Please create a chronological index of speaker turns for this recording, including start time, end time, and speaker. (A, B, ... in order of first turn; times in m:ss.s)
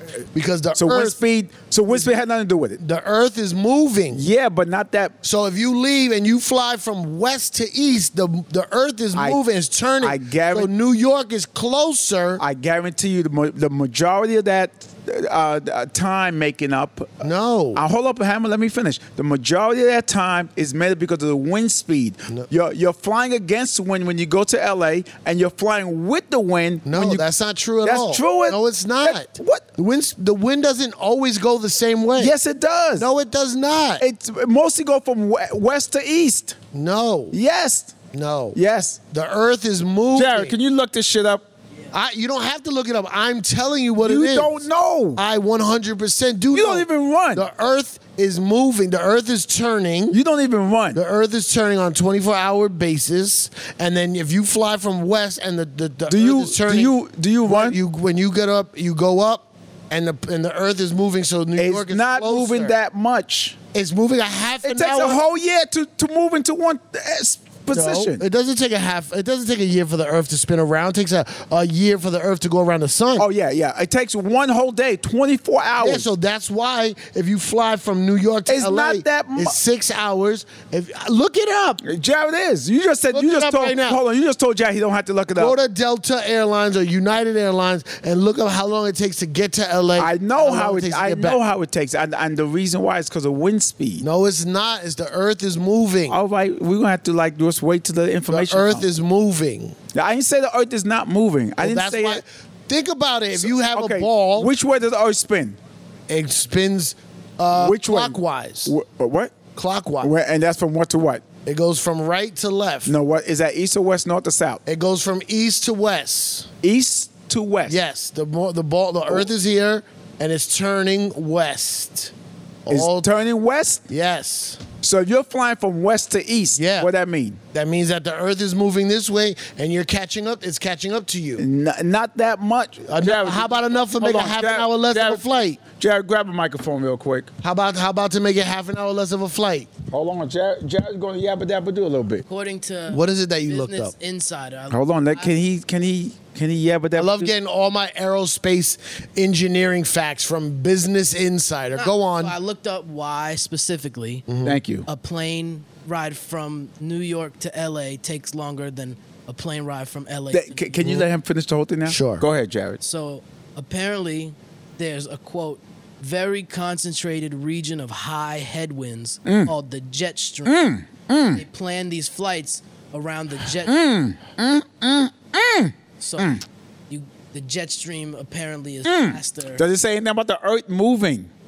0:00.3-0:01.2 A
0:00.8-0:02.8 B
0:02.8-0:04.3 A
0:04.1-0:05.2 B
0:05.2-0:12.4 A
0:09.1-0:09.4 B
0:10.0-0:10.7 B
0:12.4-0:17.2 B
0:17.2-0:17.8 A
0:17.7-0:27.3 B
0:26.8-0:32.3 A
0:27.8-0:29.6 B
0:32.2-0:33.1 B
0:33.0-0:34.0 A
0:34.0-0:36.6 B
0:36.7-0:37.4 A
0:37.3-0:37.9 B
0:38.1-0:38.6 A
0:38.5-0:39.0 B
0:39.1-0:40.6 A
0:40.1-0:41.4 B
0:41.9-0:50.2 A
0:44.0-0:45.2 B
0:46.5-0:47.4 B
0:50.1-0:51.0 B
0:50.9-1:02.8 A
0:56.1-0:57.8 B
1:01.6-1:03.6 B
1:03.7-1:05.2 A
1:04.6-1:08.2 B
1:07.7-1:13.3 A
1:13.2-1:16.1 B
1:15.8-1:21.8 A
1:18.5-1:19.6 B
1:21.8-1:25.6 B
1:23.1-1:24.0 A
1:25.4-1:31.4 A
1:30.0-1:34.0 B
1:34.0-1:36.2 A
1:36.1-1:38.8 B
1:38.3-1:39.8 A
1:39.9-1:42.2 B
1:41.6-1:44.5 A
1:43.4-1:45.6 B
1:46.1-1:48.7 A
1:47.5-1:49.4 B
1:49.5-1:50.1 A
1:50.0-1:51.2 B
1:51.4-1:52.9 A
1:52.8-1:54.6 B
1:54.6-1:56.5 A
1:56.6-1:57.8 B
1:57.7-2:02.1 A
2:02.6-2:03.1 A
2:02.7-2:03.8 B
2:03.9-2:04.6 A
2:04.8-2:07.4 B
2:06.6-2:06.9 A
2:07.5-2:11.4 A
2:11.4-2:15.2 B
2:12.9-2:15.6 A
2:15.7-2:17.3 B
2:17.4-2:19.7 A
2:19.9-2:22.2 B
2:22.2-2:25.4 C
2:22.9-2:23.9 A
2:24.7-2:27.3 B
2:27.0-2:32.3 A
2:31.7-2:34.2 C
2:34.3-2:34.6 A
2:34.4-2:34.9 B
2:34.9-2:40.8 C
2:40.3-2:42.8 B
2:41.8-2:42.2 A
2:42.8-2:50.6 C
2:49.2-2:49.5 B
2:50.4-2:51.4 B
2:51.3-2:53.8 C
2:53.6-2:56.4 B
2:56.0-2:56.4 C
2:56.9-2:59.6 C
2:58.8-3:01.3 B